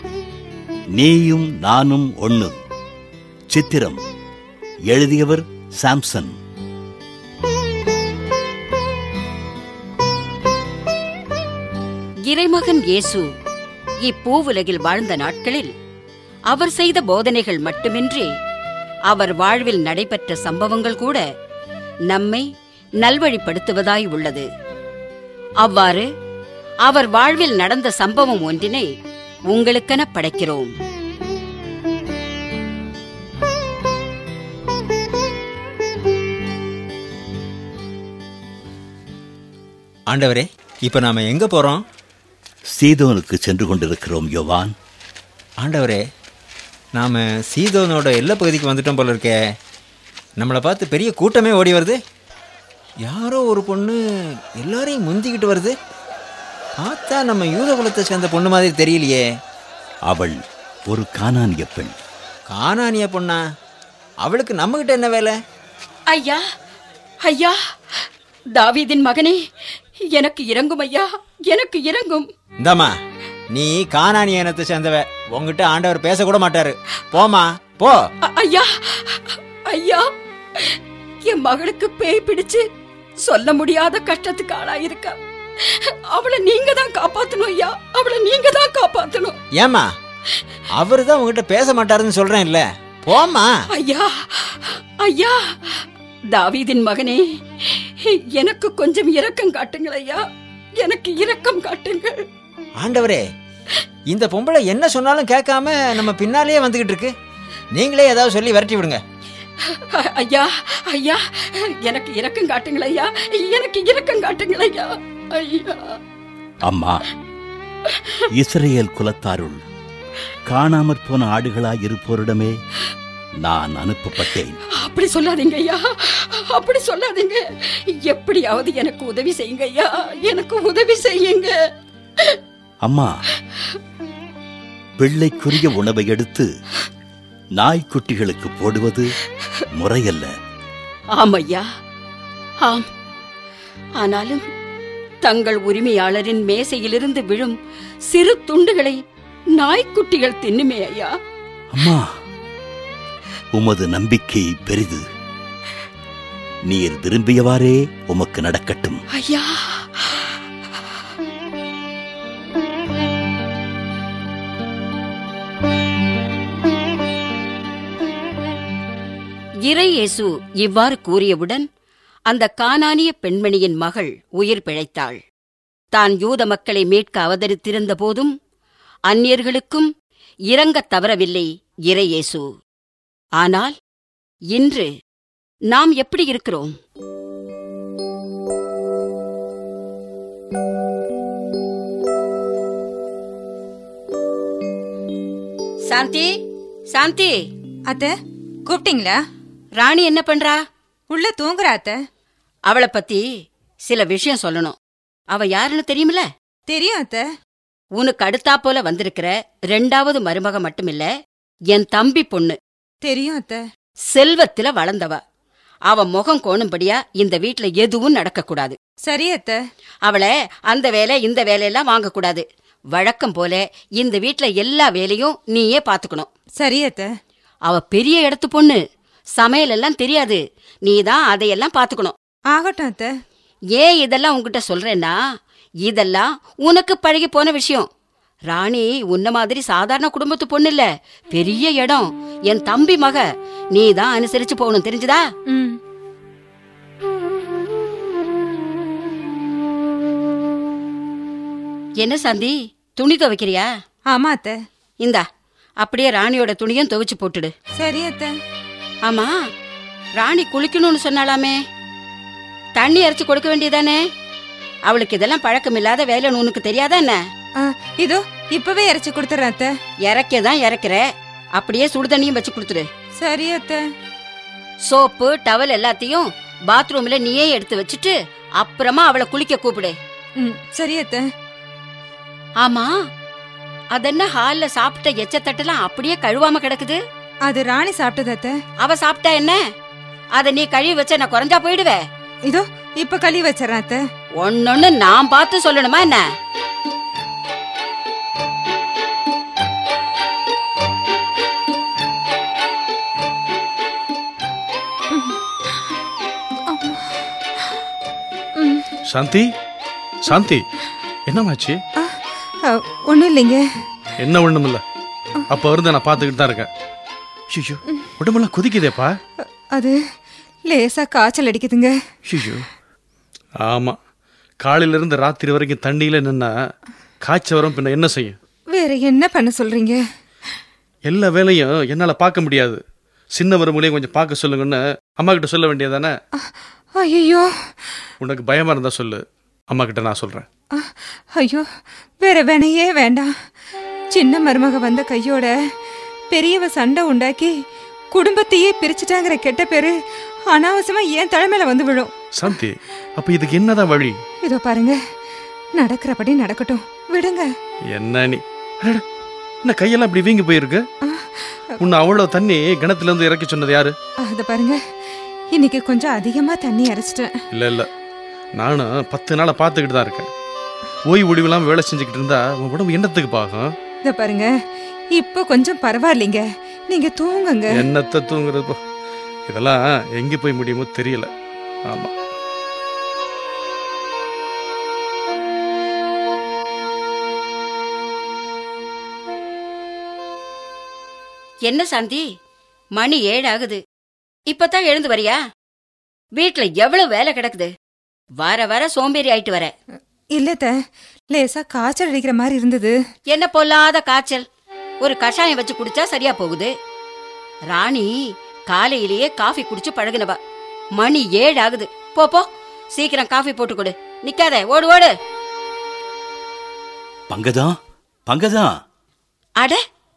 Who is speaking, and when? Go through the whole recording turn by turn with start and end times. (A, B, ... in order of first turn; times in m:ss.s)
0:01.0-0:02.6 A
0:03.5-0:04.0 A
0:04.9-0:06.3 A
0:12.3-0:13.3 B
0:14.0-0:15.7 B
0:16.5-0:18.3 B
0:19.1-0:21.2 B
0:22.1-0:22.5 B
0:23.0-0:24.5 B
0:25.6-0:26.1 B
0:26.9-0:28.9 B
0:29.5-0:30.7 B
0:40.1-0:41.8 C
0:42.7-0:44.7 A
0:45.6-0:46.0 C
0:47.0-0:49.3 C
0:50.4-0:52.0 C
0:53.1-0:54.0 C
0:54.6-0:55.7 C
0:56.8-0:59.2 C
1:00.1-1:02.0 A
1:02.5-1:03.4 C
1:04.2-1:05.4 C
1:06.1-1:06.4 B
1:07.2-1:08.1 B
1:08.6-1:09.4 B
1:10.1-1:12.3 B
1:12.6-1:12.9 C
1:13.5-1:18.1 C
1:18.2-1:20.0 B
1:20.6-1:22.6 B
1:23.2-1:29.4 B
1:29.6-1:29.9 C
1:30.7-1:33.5 C
1:33.7-1:40.2 B
1:40.8-1:42.2 B
1:42.8-1:43.2 C
1:44.1-1:47.1 C
1:47.8-1:49.0 C
1:49.6-1:56.0 B
1:56.6-1:57.0 A
1:58.3-1:59.6 A
2:00.5-2:02.6 A
2:03.4-2:04.6 A
2:04.8-2:11.5 B
2:12.8-2:13.1 A
2:15.0-2:16.5 A
2:17.6-2:19.1 A
2:19.7-2:20.3 A
2:21.2-2:21.6 B
2:24.0-2:24.4 B
2:25.2-2:27.6 B
2:28.1-2:29.0 B
2:29.6-2:31.1 B
2:31.7-2:32.0 A
2:33.5-2:35.0 A
2:36.7-2:39.0 A
2:39.1-2:40.4 B
2:49.7-2:51.7 B
2:52.3-2:55.2 B
2:55.9-2:58.3 B
2:59.1-2:59.9 B
3:00.5-3:02.5 B
3:03.4-3:03.7 B
3:04.5-3:04.9 B
3:05.7-3:06.7 B
3:15.9-3:16.3 B
3:16.9-3:17.4 B
3:18.7-3:19.2 D
3:19.8-3:20.6 B
3:21.1-3:22.0 D
3:22.7-3:23.2 B
3:23.9-3:24.8 B
3:25.3-3:26.2 B
3:26.7-3:27.2 D
3:28.0-3:31.1 B
3:31.7-3:32.6 B
3:33.0-3:33.6 D
3:34.1-3:35.2 B
3:35.9-3:38.8 B
3:39.1-3:39.6 D
3:40.0-3:46.3 B
3:46.6-3:47.1 D
3:47.7-3:48.8 B
3:49.4-3:52.1 B
3:52.5-3:53.1 D
3:53.8-3:55.2 B
3:55.8-3:57.9 B
3:58.5-4:03.2 B
4:03.7-4:05.2 B
4:05.5-4:05.8 D
4:12.0-4:13.7 B
4:14.1-4:14.5 D
4:15.8-4:17.5 B
4:17.8-4:18.3 D
4:19.0-4:19.3 B
4:20.2-4:21.6 B
4:22.8-4:24.0 B
4:24.9-4:27.2 B
4:27.6-4:29.7 D
4:30.1-4:31.0 B
4:31.6-4:32.8 B
4:33.2-4:33.8 D
4:34.9-4:39.9 B
4:40.4-4:41.2 D
4:42.6-4:42.9 B
4:43.9-4:47.0 B
4:47.4-4:48.5 D
4:48.8-4:49.6 B
4:50.4-4:52.0 B
4:52.5-4:54.0 D
4:54.4-4:56.2 B
5:05.1-5:05.4 D
5:06.7-5:07.7 D
5:08.6-5:08.9 D
5:09.1-5:09.5 E
5:10.2-5:10.6 E
5:11.3-5:11.8 E
5:12.0-5:13.6 D
5:14.2-5:14.8 E
5:15.5-5:16.7 E
5:17.5-5:19.2 E
5:20.7-5:21.9 D
5:22.3-5:22.6 E
5:23.6-5:24.0 E
5:24.6-5:26.5 E
5:27.2-5:28.4 E
5:28.7-5:30.0 D
5:31.0-5:32.8 E
5:33.3-5:36.1 E
5:37.0-5:37.5 D
5:38.2-5:40.4 E
5:40.8-5:41.6 D
5:42.2-5:43.3 D
5:44.1-5:45.5 D
5:46.3-5:47.5 D
5:48.1-5:49.9 D
5:50.5-5:52.1 D
5:52.4-5:54.2 E
5:54.4-5:55.0 D
5:55.8-5:57.5 D
5:57.9-5:59.0 E
5:59.6-6:00.8 E
6:01.0-6:01.7 D
6:01.8-6:04.0 E
6:04.2-6:04.8 D
6:05.5-6:07.3 D
6:07.5-6:07.9 E
6:08.5-6:10.3 E
6:11.1-6:13.7 E
6:14.0-6:14.5 D
6:15.1-6:17.9 D
6:17.8-6:18.8 E
6:19.5-6:21.3 E
6:21.9-6:22.1 E
6:31.7-6:32.2 B
6:33.0-6:33.8 B
6:34.5-6:35.4 B
6:36.4-6:37.7 B
6:38.4-6:39.7 B
6:40.3-6:40.7 D
6:41.3-6:42.9 D
6:43.3-6:44.4 B
6:45.0-6:46.7 B
6:47.7-6:48.1 B
6:48.7-6:50.4 B
6:51.0-6:55.1 B
6:57.3-6:57.8 A
6:58.3-6:58.7 A